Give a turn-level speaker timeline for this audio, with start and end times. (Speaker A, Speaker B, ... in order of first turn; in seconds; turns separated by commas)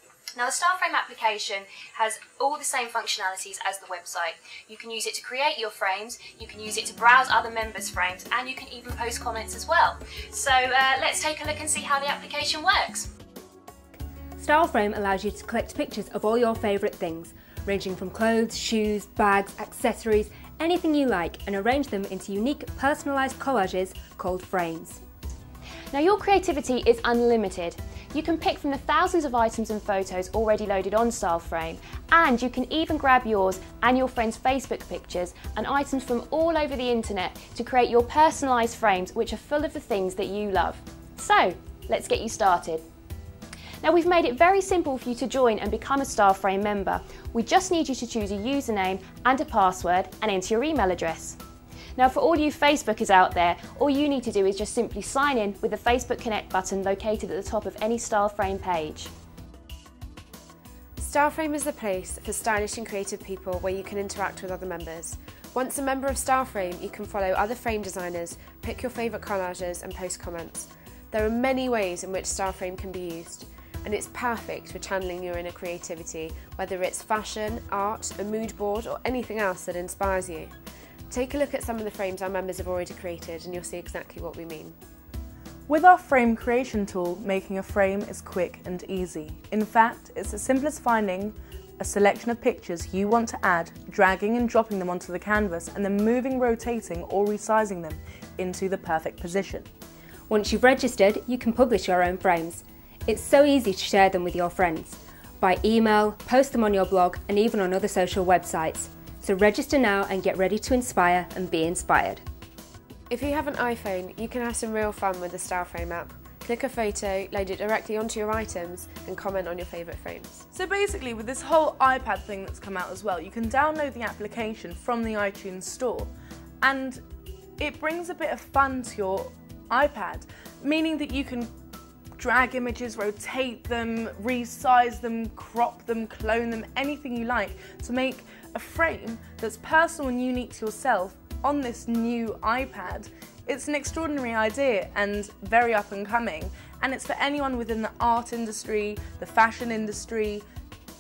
Speaker A: 0.3-13.1, Speaker B: 14.4-25.0, Speaker A: 25.9-42.8, Speaker A: 43.8-51.4, Speaker A: 52.0-59.1, Speaker C: 61.0-80.5, Speaker C: 81.1-84.8, Speaker D: 85.7-99.7, Speaker B: 100.3-112.2, Speaker C: 113.1-120.4, Speaker D: 120.5-127.0, Speaker D: 127.6-131.5, Speaker D: 132.2-150.4